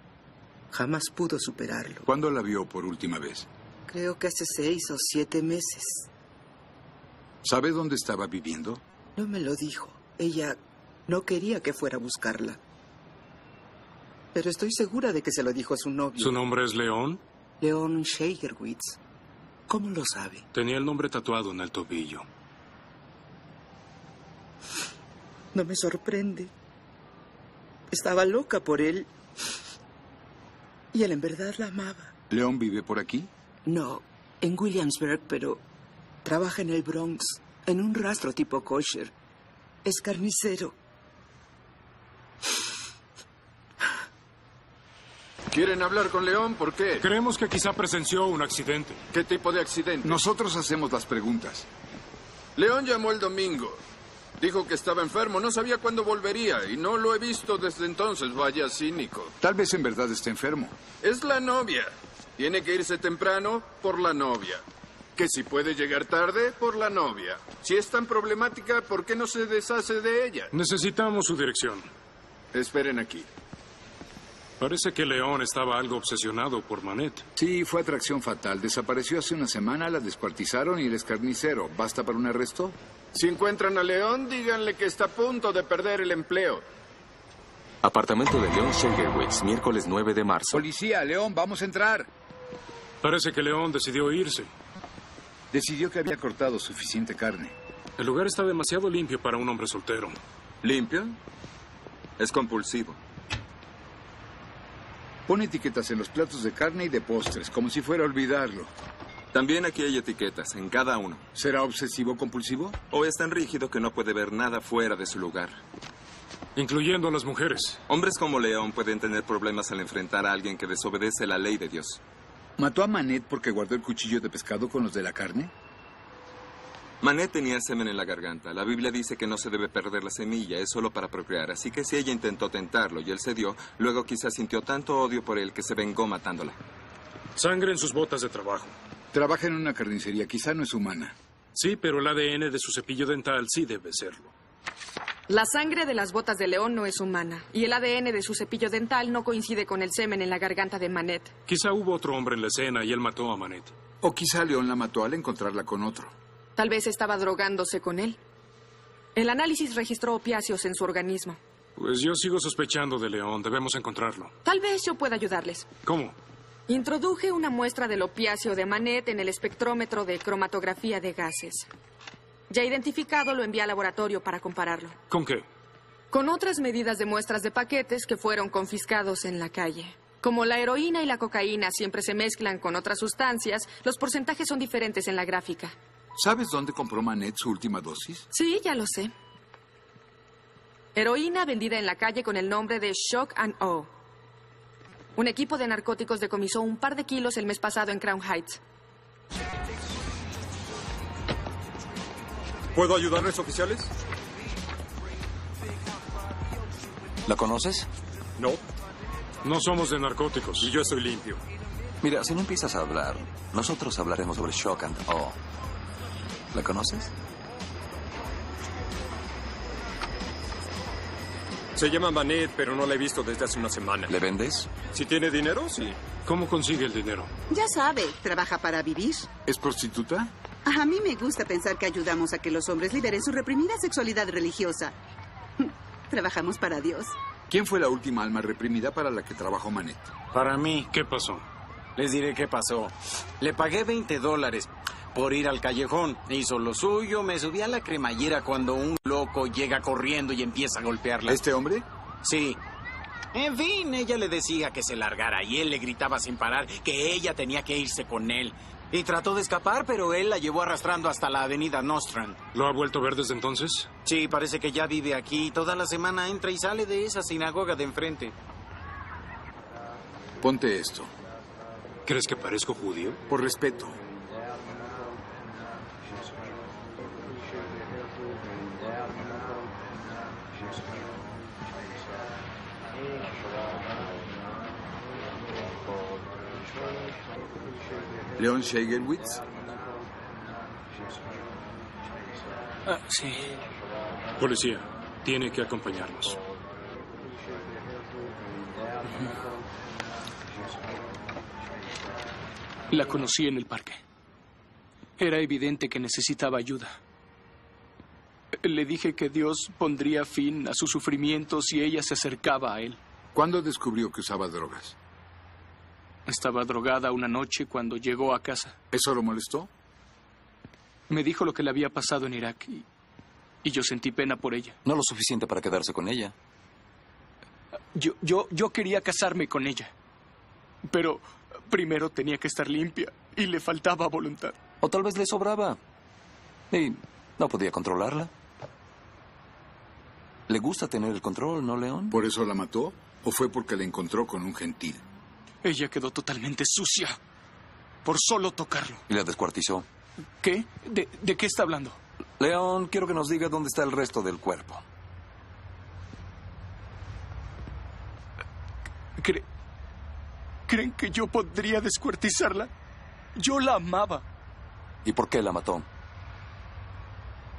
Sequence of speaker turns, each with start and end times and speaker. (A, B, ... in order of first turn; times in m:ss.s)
0:00.7-0:02.1 A
0:02.0-0:03.5 B
0:03.9-0:06.1 A
0:07.4-0:08.8 B
0:09.2-0:12.6 A
0:14.3-0:16.4 A
0:16.2-0:17.2 C
0:17.6-0:19.0 A
0:19.7-0:20.4 A
0:20.5-0:22.2 C
0:25.5-0:26.5 A
0:27.9-0:29.1 A
0:30.9-0:32.1 A
0:32.3-0:33.3 B
0:33.6-0:35.6 A
0:36.2-0:39.1 A
0:39.8-0:40.8 A
0:45.5-0:47.0 D
0:47.0-0:49.0 C
0:49.1-0:50.2 D
0:50.0-0:51.7 B
0:52.6-0:53.8 D
0:54.4-0:59.3 D
0:59.4-1:00.7 B
1:01.0-1:04.6 D
1:05.2-1:10.5 D
1:10.5-1:11.9 C
1:12.5-1:13.2 D
1:14.6-1:17.2 C
1:17.4-1:22.8 B
1:23.1-1:26.6 D
1:27.8-1:30.6 E
1:30.5-1:32.1 B
1:33.0-1:34.5 C
1:35.5-1:37.5 B
1:38.0-1:40.2 C
1:40.6-1:41.2 F
1:42.2-1:43.0 F
1:45.3-1:48.7 B
1:49.3-1:51.2 F
1:51.3-1:52.8 B
1:52.9-1:55.6 F
1:56.6-1:57.8 C
1:57.9-2:02.0 F
2:02.6-2:05.5 B
2:07.0-2:16.6 F
2:17.4-2:18.7 C
2:19.1-2:21.1 B
2:21.5-2:24.3 C
2:25.3-2:31.3 G
2:31.5-2:33.7 C
2:34.0-2:36.1 B
2:36.6-2:38.2 G
2:39.2-2:41.4 G
2:41.8-2:44.3 C
2:44.4-2:45.7 G
2:45.8-2:46.1 C
2:46.7-2:51.7 G
2:52.5-2:55.0 G
2:55.1-2:55.4 C
2:56.1-3:05.8 G
3:06.2-3:08.3 B
3:08.3-3:09.1 G
3:10.9-3:13.9 G
3:15.2-3:18.6 G
3:22.7-3:23.9 H
3:27.3-3:27.9 I
3:29.4-3:30.7 C
3:30.6-3:31.4 H
3:32.0-3:35.4 I
3:36.5-3:37.1 I
3:41.7-3:44.1 H
3:44.1-3:44.7 I
3:44.8-3:46.0 H
3:46.2-3:47.3 C
3:47.5-3:49.3 J
3:49.4-3:50.3 B
3:50.6-3:54.9 J
3:55.6-3:57.1 J
3:57.5-4:00.1 B
4:00.3-4:00.9 K
4:00.9-4:01.4 C
4:02.0-4:11.4 K
4:11.3-4:11.8 B
4:12.2-4:12.6 K
4:13.3-4:22.4 K
4:22.5-4:23.9 C
4:24.0-4:28.3 K
4:30.4-4:31.1 B
4:32.0-4:33.2 C
4:33.3-4:34.0 B
4:48.4-4:49.4 B
4:52.9-4:53.5 L
4:54.4-4:56.4 C
5:02.9-5:04.0 L
5:05.2-5:07.0 L
5:08.6-5:13.0 L
5:13.3-5:15.0 B
5:16.3-5:18.8 L
5:18.9-5:19.7 B
5:21.1-5:22.8 L
5:23.6-5:24.8 L
5:24.8-5:26.3 I
5:27.9-5:29.9 L
5:30.8-5:34.6 L
5:34.8-5:35.8 I
5:36.7-5:38.3 I
5:40.5-5:42.2 I
5:42.1-5:45.0 B
5:45.6-5:47.2 L
5:48.0-5:49.0 L
5:49.1-5:49.8 I
5:50.4-5:52.0 L
5:52.4-5:54.8 I
5:59.2-5:59.4 L
6:00.7-6:02.7 L
6:03.4-6:04.2 L
6:05.0-6:05.8 I